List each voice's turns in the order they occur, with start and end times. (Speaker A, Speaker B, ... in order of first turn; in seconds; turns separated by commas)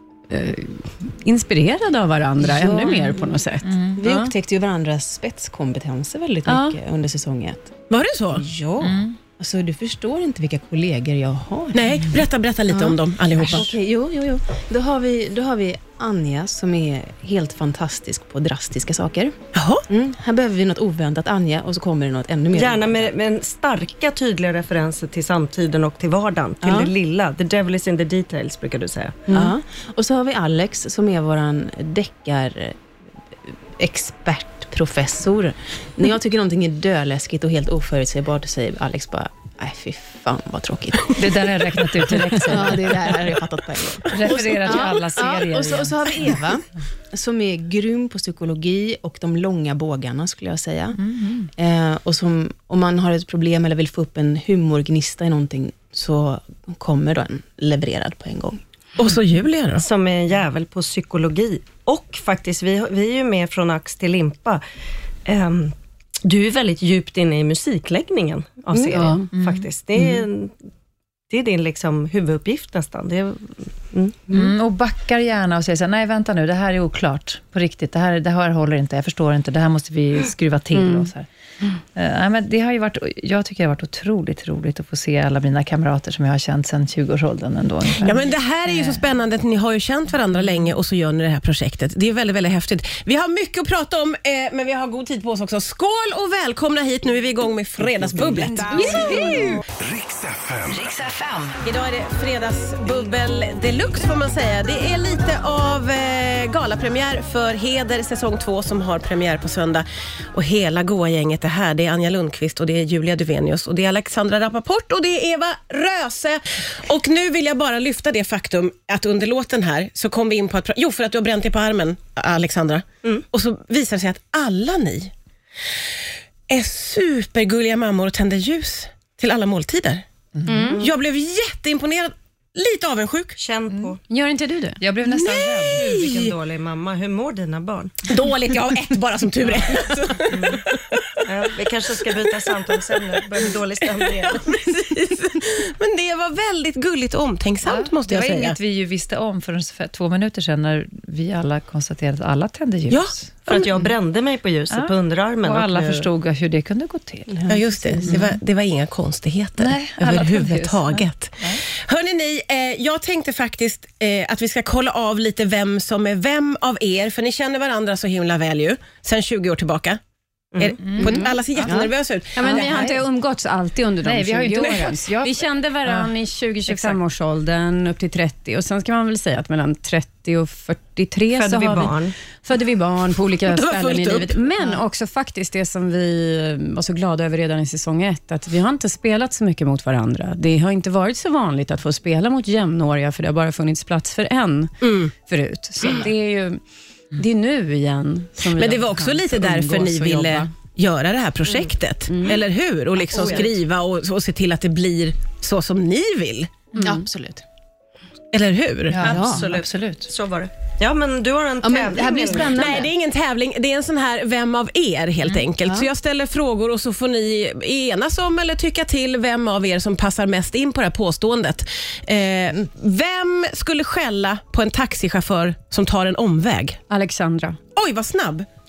Speaker A: 0.3-4.3, Speaker B: 2.4-3.3, Speaker C: 3.6-4.0, Speaker B: 3.9-7.8, Speaker A: 6.5-6.8, Speaker D: 7.9-8.5, Speaker B: 8.3-12.1, Speaker C: 8.8-9.2, Speaker D: 11.7-13.8, Speaker B: 12.7-19.4, Speaker D: 19.5-19.8, Speaker B: 19.9-23.1, Speaker E: 22.5-29.2, Speaker B: 26.6-26.9, Speaker B: 29.3-32.8, Speaker B: 33.8-41.3, Speaker C: 41.1-43.3, Speaker B: 42.4-51.0, Speaker C: 44.1-46.3, Speaker C: 51.0-51.5, Speaker B: 51.5-58.6, Speaker D: 59.0-59.8, Speaker E: 59.8-64.6, Speaker E: 65.2-65.7, Speaker E: 66.2-70.5, Speaker B: 68.7-69.2, Speaker A: 68.9-69.2, Speaker C: 69.3-69.7, Speaker E: 71.3-74.5, Speaker C: 74.3-81.3, Speaker A: 80.7-81.1, Speaker C: 81.9-89.0, Speaker D: 88.0-98.9, Speaker F: 98.6-99.2, Speaker B: 98.7-99.6, Speaker A: 98.7-99.5, Speaker F: 99.7-101.1, Speaker D: 101.5-125.1, Speaker D: 126.5-130.0, Speaker C: 130.3-130.7, Speaker A: 130.4-130.8, Speaker D: 130.8-133.4, Speaker E: 133.4-134.0, Speaker A: 134.1-134.8, Speaker C: 134.8-135.8, Speaker D: 135.1-136.3, Speaker E: 135.7-138.1, Speaker D: 138.1-141.2, Speaker E: 140.3-140.6, Speaker E: 141.2-144.5, Speaker D: 142.1-142.8, Speaker D: 144.0-148.6, Speaker C: 147.6-153.4, Speaker D: 152.9-153.9, Speaker E: 153.5-156.1, Speaker C: 154.7-158.4, Speaker B: 157.3-158.2, Speaker D: 157.5-170.0, Speaker C: 159.6-161.6, Speaker E: 170.5-170.9, Speaker D: 170.6-172.9, Speaker C: 170.8-171.3, Speaker B: 171.1-171.9, Speaker A: 172.3-196.6, Speaker C: 172.4-173.0, Speaker C: 174.0-176.1, Speaker C: 176.7-177.0, Speaker E: 181.3-182.2, Speaker D: 183.4-184.4, Speaker D: 194.8-195.1, Speaker A: 197.1-200.5, Speaker D: 198.5-206.7, Speaker A: 202.1-202.4, Speaker E: 203.1-203.5, Speaker B: 206.8-207.4, Speaker D: 208.3-209.3, Speaker C: 208.9-210.1, Speaker B: 209.0-209.5, Speaker E: 209.0-212.8, Speaker B: 211.6-212.9, Speaker D: 212.5-226.8, Speaker A: 226.9-227.6, Speaker D: 227.8-228.5